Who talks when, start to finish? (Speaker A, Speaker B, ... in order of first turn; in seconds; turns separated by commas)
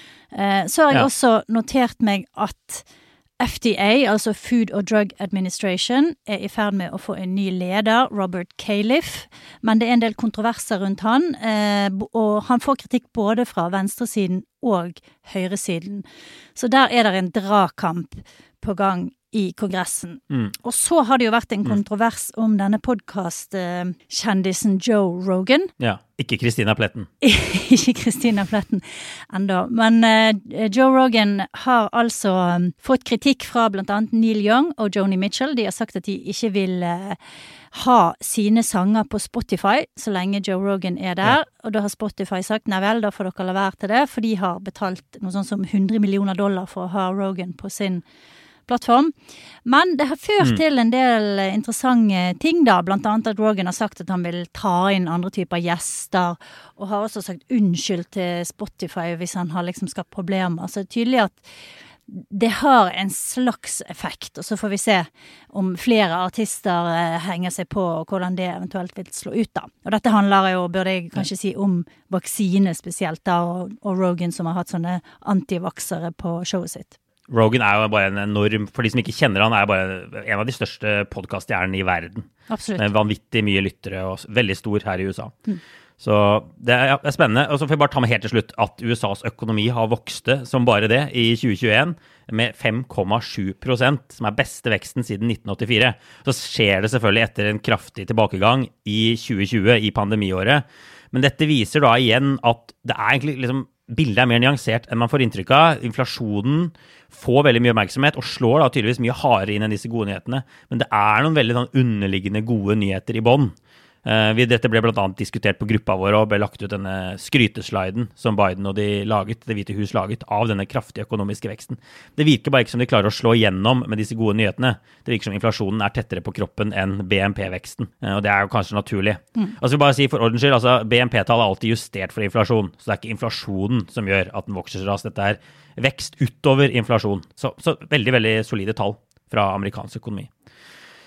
Speaker A: 0.3-2.9, Speaker A: 3.4-16.0, Speaker A: 16.6-25.7, Speaker B: 25.8-27.1, Speaker A: 27.2-37.2, Speaker A: 37.7-48.0, Speaker A: 48.7-49.1, Speaker A: 49.6-61.4, Speaker A: 62.1-77.0, Speaker B: 77.3-85.4, Speaker A: 82.5-82.9, Speaker B: 86.0-140.3